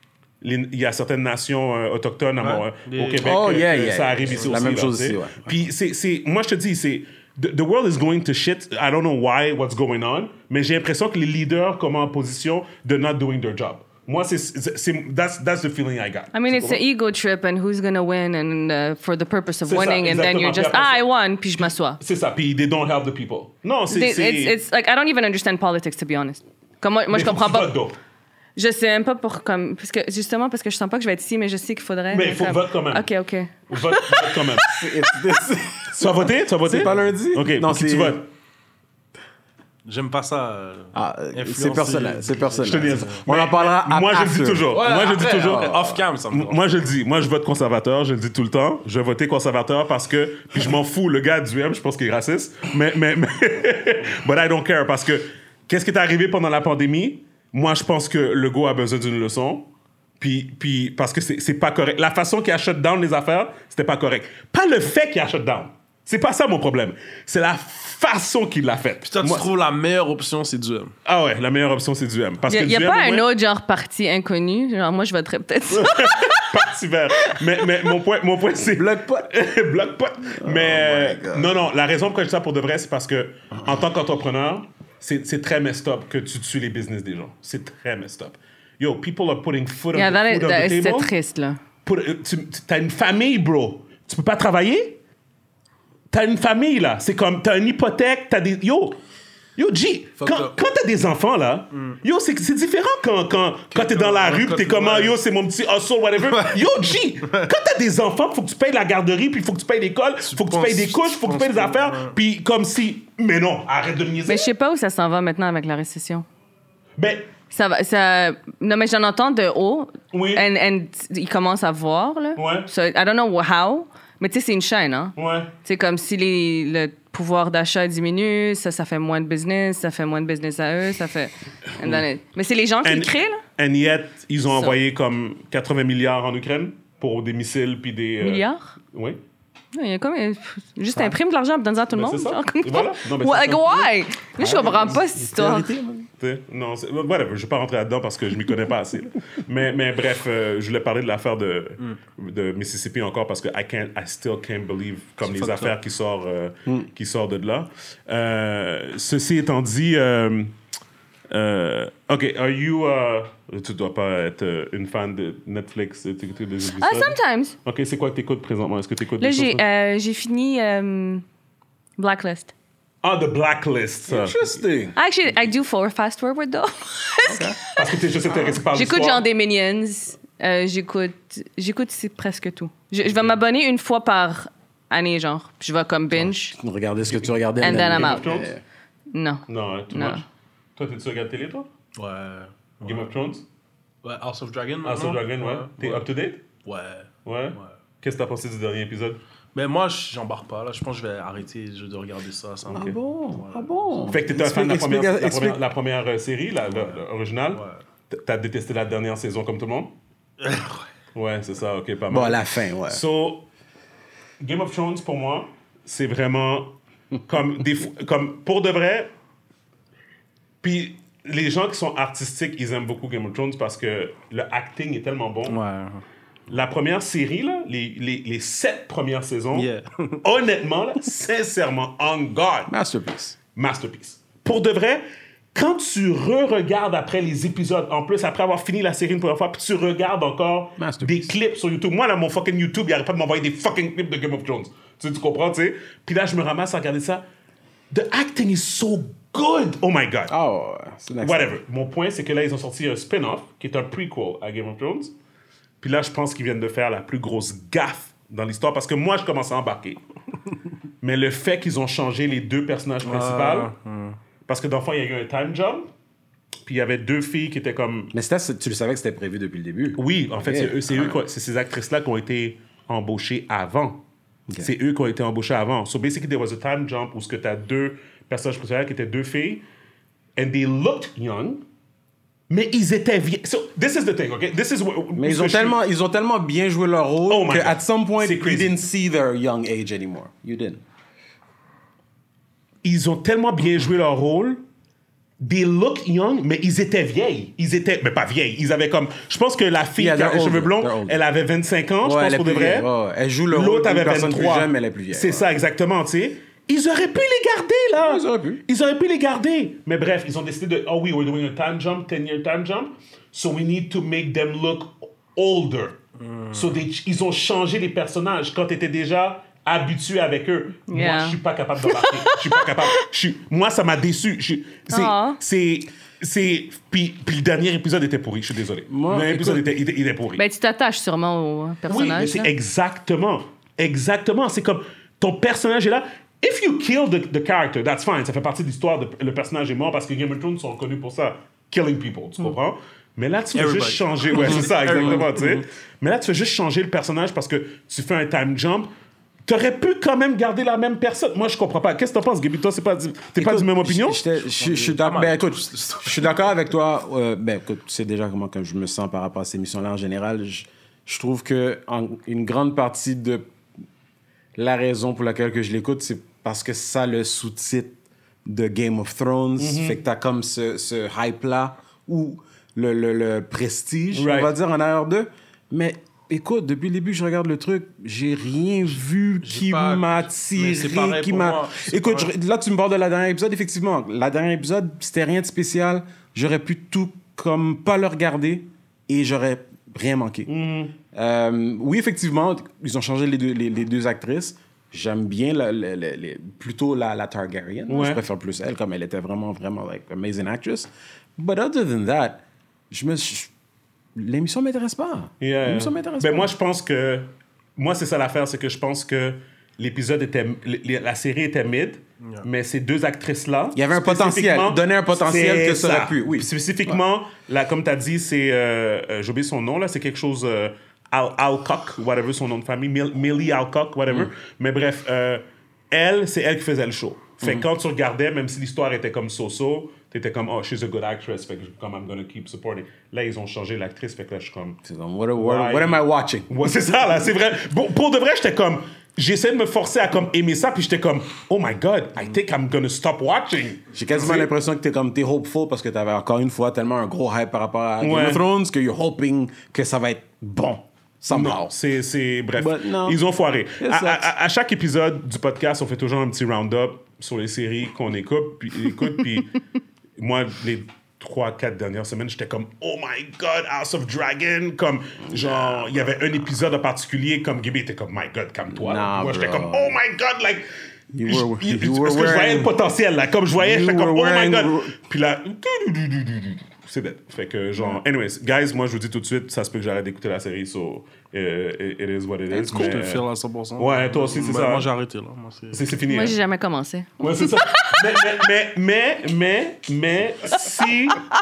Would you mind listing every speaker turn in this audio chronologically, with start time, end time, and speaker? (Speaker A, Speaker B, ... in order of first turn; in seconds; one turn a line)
Speaker A: 0.4-16.8
Speaker B: 2.4-3.3
Speaker C: 3.2-5.5
Speaker B: 4.2-4.7
Speaker D: 16.3-22.0
Speaker A: 19.6-21.1
Speaker A: 21.6-24.6
Speaker D: 23.9-27.7
Speaker A: 27.1-28.0
Speaker D: 28.6-35.0
Speaker A: 32.1-33.1
Speaker A: 33.7-34.7
Speaker C: 34.7-38.2
Speaker A: 35.9-38.3
Speaker B: 39.8-43.2
Speaker C: 40.9-46.0
Speaker A: 42.6-45.8
Speaker B: 44.7-46.9
Speaker A: 46.3-69.5
Speaker B: 69.0-70.9
Speaker A: 71.0-73.3
Speaker D: 72.5-76.5
Speaker A: 75.7-91.1
Speaker C: 78.7-79.3
Speaker C: 80.3-81.5
Speaker D: 89.9-91.6
Speaker A: 91.8-95.0
Speaker A: 96.1-99.0
Speaker A: 99.5-114.5
Speaker B: 100.2-100.5
Speaker B: 103.7-105.1
Speaker B: 106.3-106.6
Speaker B: 110.2-112.2
Speaker D: 114.3-116.2
Speaker A: 117.0-117.3
Speaker D: 117.5-133.4
Speaker A: 120.1-120.4
Speaker A: 122.3-122.7
Speaker A: 125.1-125.5
Speaker A: 132.8-139.2
Speaker D: 134.5-134.8
Speaker D: 138.2-138.7
Speaker D: 139.7-145.7
Speaker A: 141.9-143.9
Speaker C: 144.4-146.1
Speaker A: 144.4-145.0
Speaker A: 146.2-160.6
Speaker B: 155.2-155.7
Speaker A: 161.3-169.6
Speaker D: 166.8-167.6
Speaker D: 169.2-171.2
Speaker D: 172.0-172.5
Speaker A: 173.0-174.6
Speaker C: 174.1-174.9
Speaker D: 174.9-177.9
Speaker C: 177.2-177.6
Speaker A: 177.7-179.2
Speaker D: 178.7-186.6
Speaker C: 186.2-188.6
Speaker A: 187.1-188.5
Speaker D: 187.6-188.2
Speaker D: 189.1-190.2
Speaker A: 189.5-190.2
Speaker A: 190.8-191.7
Speaker B: 191.9-193.1
Speaker A: 192.8-193.4
Speaker B: 194.0-196.1
Speaker A: 194.8-196.4
Speaker B: 196.6-197.7
Speaker A: 197.2-199.2
Speaker B: 199.5-204.1
Speaker C: 202.7-205.6
Speaker A: 204.1-209.9
Speaker B: 206.7-207.0
Speaker B: 207.5-207.8
Speaker B: 210.4-210.8
Speaker A: 211.1-213.5
Speaker C: 212.1-213.0
Speaker A: 214.4-216.7
Speaker A: 217.2-219.1
Speaker A: 220.6-225.6
Speaker B: 225.5-226.0
Speaker A: 226.5-229.7
Speaker B: 229.5-230.2
Speaker A: 230.2-232.7
Speaker C: 232.7-233.4
Speaker A: 233.5-235.0
Speaker A: 235.5-247.2
Speaker C: 240.8-241.3
Speaker A: 247.9-250.3
Speaker C: 250.3-251.5
Speaker A: 251.2-255.1
Speaker A: 255.8-260.0
Speaker A: 261.0-263.7
Speaker B: 263.0-264.2
Speaker A: 264.4-265.9
Speaker A: 266.6-268.1
Speaker C: 268.1-271.2
Speaker A: 269.9-274.0
Speaker A: 274.6-279.6
Speaker A: 280.4-281.6
Speaker A: 282.5-285.8
Speaker C: 285.1-290.8
Speaker A: 287.3-288.8
Speaker A: 292.8-294.6
Speaker A: 295.4-302.9
Speaker C: 300.0-301.2
Speaker C: 302.0-305.5
Speaker A: 303.5-316.0
Speaker C: 308.0-308.6
Speaker B: 316.2-316.8
Speaker A: 316.5-330.4
Speaker D: 320.9-322.8
Speaker D: 324.9-325.4
Speaker C: 328.9-329.7
Speaker D: 330.4-332.5
Speaker A: 331.9-348.9
Speaker B: 343.5-345.3
Speaker C: 344.4-345.6
Speaker A: 349.5-354.2
Speaker C: 353.4-363.4
Speaker B: 354.3-356.4
Speaker C: 364.6-390.5
Speaker A: 369.6-370.0
Speaker A: 374.1-374.5
Speaker B: 379.4-382.3
Speaker A: 390.5-390.9
Speaker C: 391.1-403.5
Speaker A: 397.9-398.2
Speaker C: 404.1-406.5
Speaker A: 405.4-434.8
Speaker C: 413.7-417.0
Speaker C: 434.8-436.9
Speaker A: 435.4-444.5
Speaker C: 443.9-451.7
Speaker A: 448.0-448.4
Speaker A: 451.3-459.6
Speaker C: 452.6-453.2
Speaker C: 453.8-454.3
Speaker A: 460.2-470.7
Speaker C: 465.3-465.9
Speaker C: 468.7-470.0
Speaker C: 471.1-472.7
Speaker A: 471.2-483.2
Speaker C: 473.6-474.9
Speaker B: 482.5-485.9
Speaker A: 483.8-484.9
Speaker A: 485.7-486.4
Speaker D: 486.1-488.2
Speaker A: 487.2-491.2